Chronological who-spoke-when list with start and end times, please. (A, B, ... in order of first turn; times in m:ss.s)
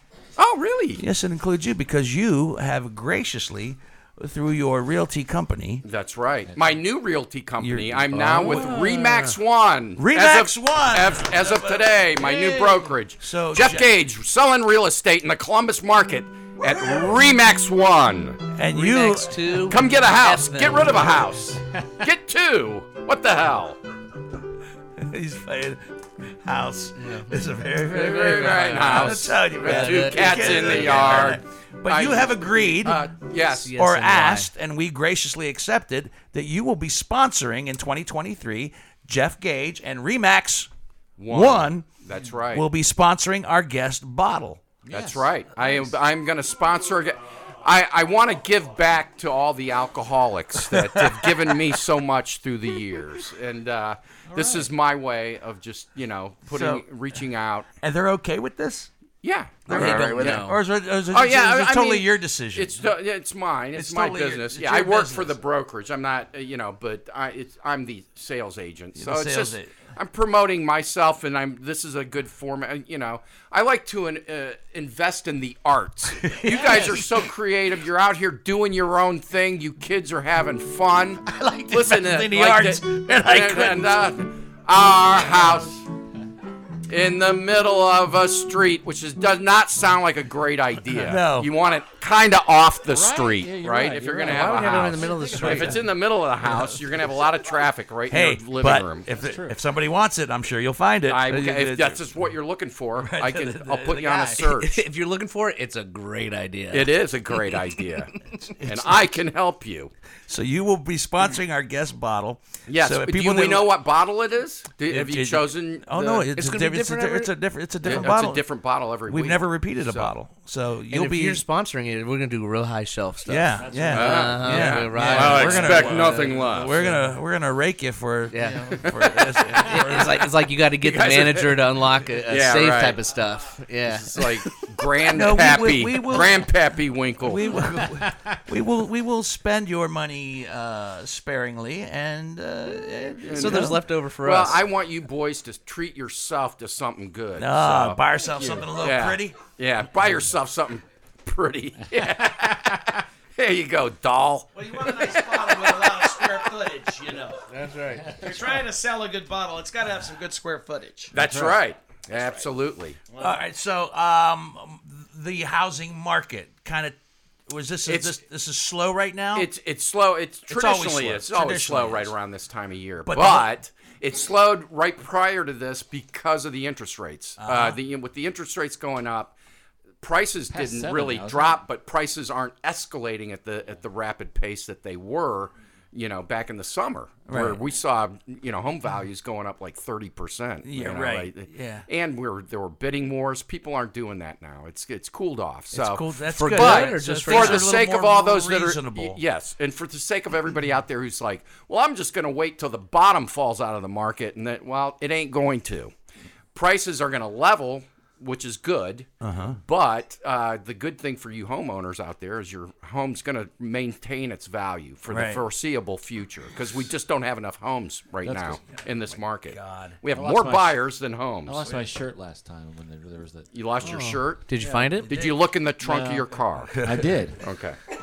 0:00.4-0:01.0 A
0:01.0-0:05.8 B
0:05.8-0:18.4 A
0:07.6-0:09.3 B
0:10.0-0:13.9 B
0:18.5-0:19.6 B
0:18.7-0:21.2 C
0:19.6-0:23.8 A
0:25.0-0:25.8 B
0:26.4-0:33.0 B
0:27.0-0:27.3 C
0:27.9-0:31.3 C
0:28.0-0:33.7 A
0:33.4-0:34.5 C
0:33.8-0:40.7 B
0:41.2-0:42.6 A
0:41.3-0:41.9 B
0:42.5-0:44.6 B
0:44.9-0:57.7 A
0:44.9-0:45.9 D
0:50.8-0:51.1 B
0:54.3-0:54.7 D
0:56.5-0:56.8 B
0:57.8-0:58.9 B
0:59.2-1:00.6 A
0:59.6-1:02.8 B
0:59.7-1:00.6 C
1:01.1-1:25.8 A
1:03.7-1:05.4 B
1:09.0-1:09.7 B
1:16.2-1:17.0 B
1:16.5-1:17.0 D
1:21.3-1:24.0 B
1:26.9-1:39.1 A
1:30.9-1:31.5 B
1:32.9-1:35.9 D
1:34.2-1:35.8 C
1:36.4-1:36.7 B
1:38.1-1:42.0 B
1:39.2-1:39.5 D
1:41.1-1:44.8 A
1:43.0-1:44.5 B
1:44.6-1:47.0 C
1:46.7-1:48.1 A
1:48.6-1:49.0 B
1:48.6-1:49.9 A
1:50.3-1:53.7 B
1:52.7-1:56.3 A
1:54.9-1:58.5 B
1:56.4-1:57.3 C
1:57.8-2:00.1 A
1:59.0-2:01.4 B
2:00.9-2:07.0 C
2:03.2-2:10.2 B
2:03.6-2:04.0 D
2:03.9-2:06.9 A
2:08.3-2:08.8 C
2:08.4-2:08.8 D
2:08.8-2:09.6 A
2:09.6-2:14.2 C
2:10.8-2:11.7 A
2:12.3-2:13.0 A
2:13.8-2:17.6 A
2:15.1-2:16.5 B
2:17.2-2:23.8 B
2:23.2-2:28.0 A
2:23.3-2:24.6 C
2:27.4-2:29.4 B
2:28.7-2:36.5 A
2:34.6-2:37.4 E
2:37.5-2:38.2 C
2:38.0-2:38.4 D
2:38.2-2:41.1 E
2:41.1-2:43.0 A
2:41.2-2:41.6 D
2:43.2-2:47.0 B
2:47.5-2:49.5 B
2:47.8-2:48.2 A
2:49.3-2:59.4 A
2:50.5-2:52.1 B
2:53.0-2:53.5 B
2:57.4-2:57.8 B
3:00.0-3:25.9 A
3:00.5-3:01.6 D
3:07.3-3:07.6 B
3:10.6-3:11.8 B
3:15.7-3:19.2 B
3:16.3-3:17.7 C
3:26.5-3:29.1 A
3:29.2-3:29.6 B
3:29.6-3:41.7 A
3:35.1-3:35.4 B
3:38.2-3:38.7 D
3:39.5-3:40.0 B
3:40.1-3:40.8 D
3:41.4-3:44.9 D
3:43.5-3:44.5 A
3:44.4-3:45.1 C
3:45.0-3:45.3 B
3:45.1-3:46.7 A
3:45.8-3:47.4 D
3:46.8-3:47.1 B
3:47.4-3:47.8 A